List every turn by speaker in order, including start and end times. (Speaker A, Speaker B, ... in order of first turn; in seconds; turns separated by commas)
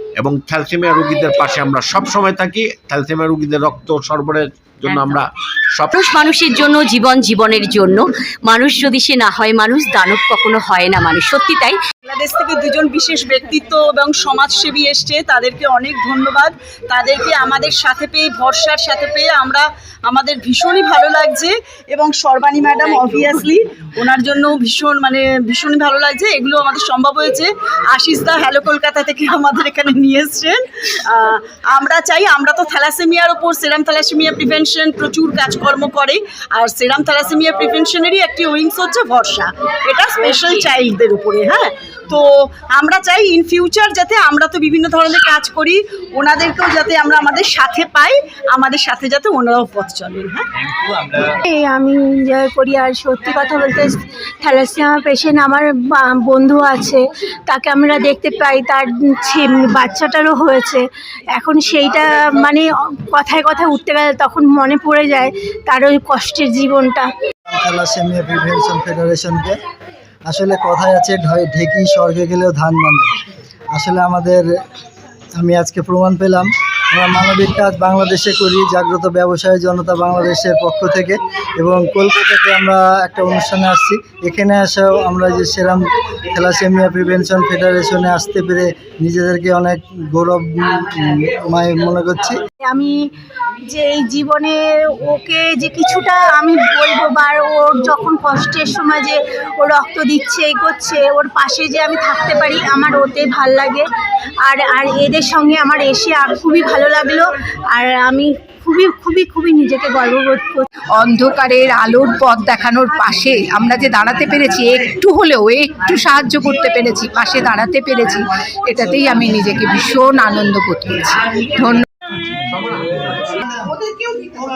Speaker A: 0.2-6.2, Speaker B: 4.9-5.2, Speaker B: 5.9-11.8, Speaker C: 12.1-50.4, Speaker B: 23.1-23.4, Speaker B: 40.2-40.7, Speaker D: 51.4-67.1, Speaker E: 67.5-69.6, Speaker E: 70.3-73.1, Speaker E: 73.7-74.5, Speaker E: 75.3-92.4, Speaker D: 92.6-93.1, Speaker D: 93.7-103.9, Speaker D: 104.4-110.7, Speaker F: 111.0-121.8